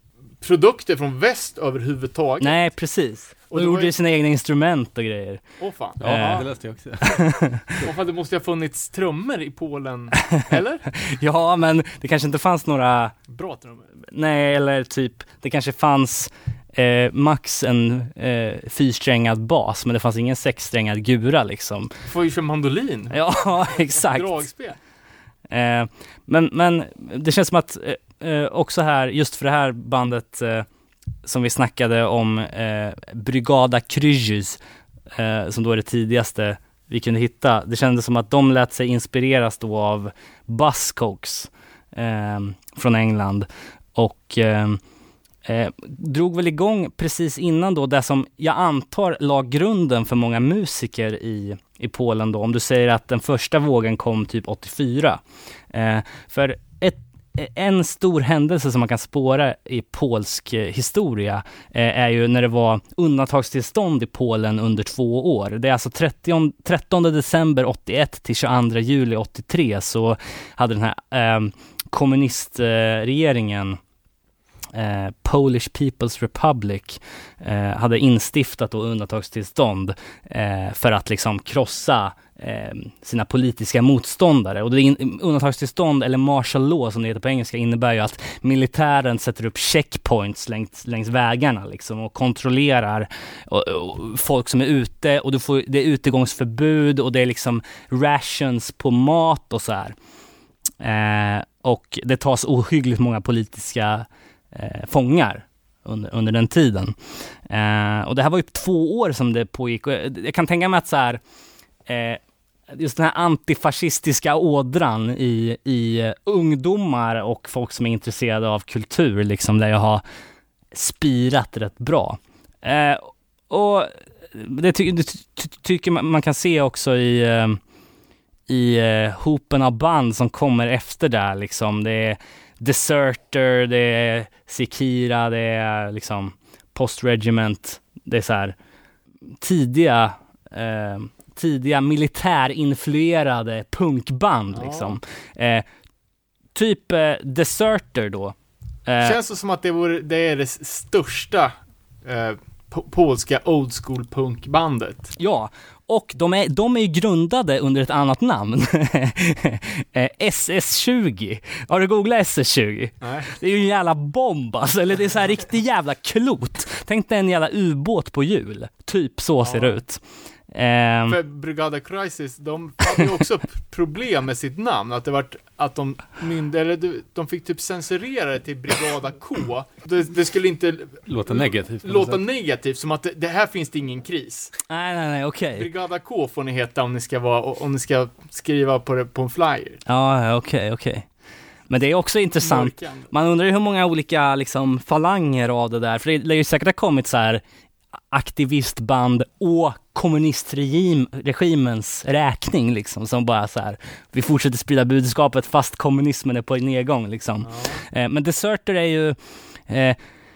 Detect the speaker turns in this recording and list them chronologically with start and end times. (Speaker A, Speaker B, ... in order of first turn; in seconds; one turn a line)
Speaker A: 0.4-2.6
Speaker B: 2.4-5.4
Speaker A: 3.5-3.9
Speaker A: 5.6-6.5
Speaker C: 6.0-7.9
Speaker B: 6.0-6.5
Speaker B: 7.0-7.7
Speaker A: 7.8-10.8
Speaker B: 10.2-13.1
Speaker A: 13.3-13.9
Speaker B: 14.1-21.9
Speaker A: 22.1-24.8
Speaker B: 23.1-24.4
Speaker B: 25.5-30.7
Speaker B: 31.2-34.6
Speaker B: 35.1-44.8
Speaker B: 45.5-55.2
Speaker B: 55.7-73.8
Speaker B: 74.7-100.0
Speaker B: 100.8-107.0
Speaker B: 107.5-111.2
Speaker B: 111.9-120.0
Speaker B: 120.7-127.6
Speaker B: 128.5-138.6
Speaker B: 139.4-145.7
Speaker A: 144.5-145.0
Speaker B: 146.6-148.3
Speaker B: 148.9-149.2
Speaker A: 149.0-151.5
Speaker A: 152.1-155.2
Speaker B: 155.2-171.2
Speaker A: 163.0-163.3
Speaker A: 169.4-169.8
Speaker A: 171.1-184.5
Speaker C: 181.1-182.2
Speaker B: 184.7-185.7
Speaker A: 185.6-189.8
Speaker B: 189.9-191.1
Speaker B: 191.7-197.4
Speaker A: 192.4-193.1
Speaker B: 198.1-209.2
Speaker A: 207.4-207.8
Speaker B: 209.7-210.0